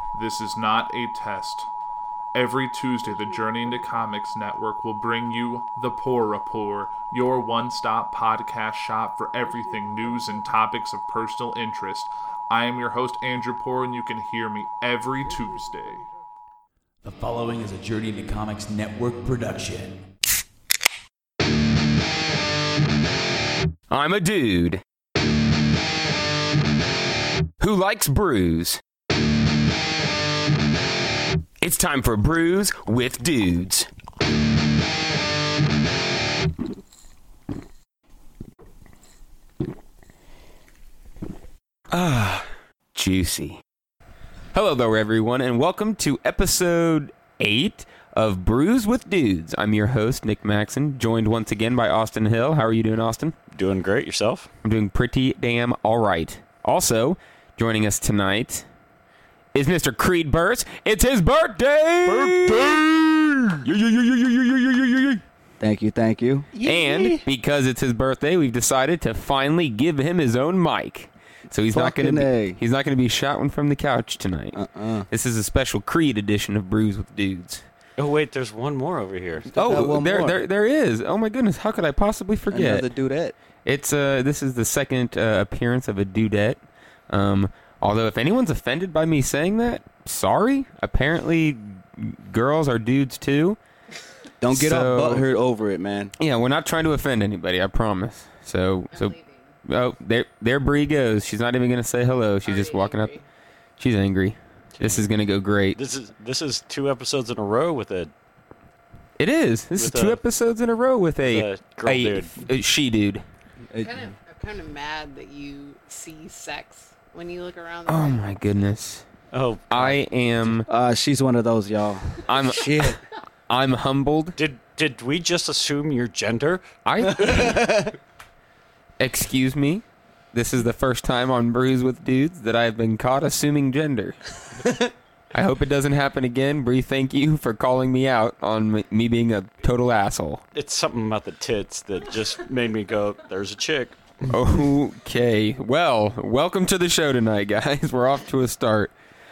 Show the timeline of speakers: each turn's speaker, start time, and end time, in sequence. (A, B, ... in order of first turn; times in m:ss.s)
0:00.1-0:01.7 A
0:02.3-0:16.1 A
0:17.0-0:20.0 B
0:23.9-0:24.8 C
0:27.6-0:28.8 C
0:31.6-0:33.9 C
0:41.9-0:43.6 C
0:44.5-0:53.4 C
0:53.5-0:54.5 D
0:54.6-0:58.7 C
0:59.5-1:05.2 C
1:05.6-1:07.2 E
1:06.6-1:17.6 C
1:11.7-1:12.6 E
1:14.5-1:15.1 E
1:18.0-1:19.5 D
1:19.5-1:20.4 E
1:19.5-1:22.9 C
1:22.5-1:23.4 E
1:23.6-1:33.6 C
1:34.4-1:36.1 E
1:34.5-1:35.2 C
1:36.2-1:43.1 C
1:38.9-1:39.6 F
1:42.4-1:43.2 F
1:43.8-1:45.8 C
1:44.8-1:45.0 D
1:45.7-1:48.1 D
1:49.2-1:53.2 C
1:49.8-1:50.2 D
1:51.2-1:52.4 D
1:53.7-1:54.0 E
1:53.8-1:58.4 F
1:57.9-1:59.1 C
1:59.3-2:00.0 D
1:59.7-2:00.7 C
2:00.7-2:03.0 E
2:02.2-2:03.0 C
2:03.5-2:04.4 C
2:04.4-2:06.6 D
2:06.8-2:07.7 C
2:07.0-2:08.0 E
2:09.0-2:14.2 C
2:15.3-2:20.4 C
2:20.6-2:24.0 D
2:24.3-2:28.9 C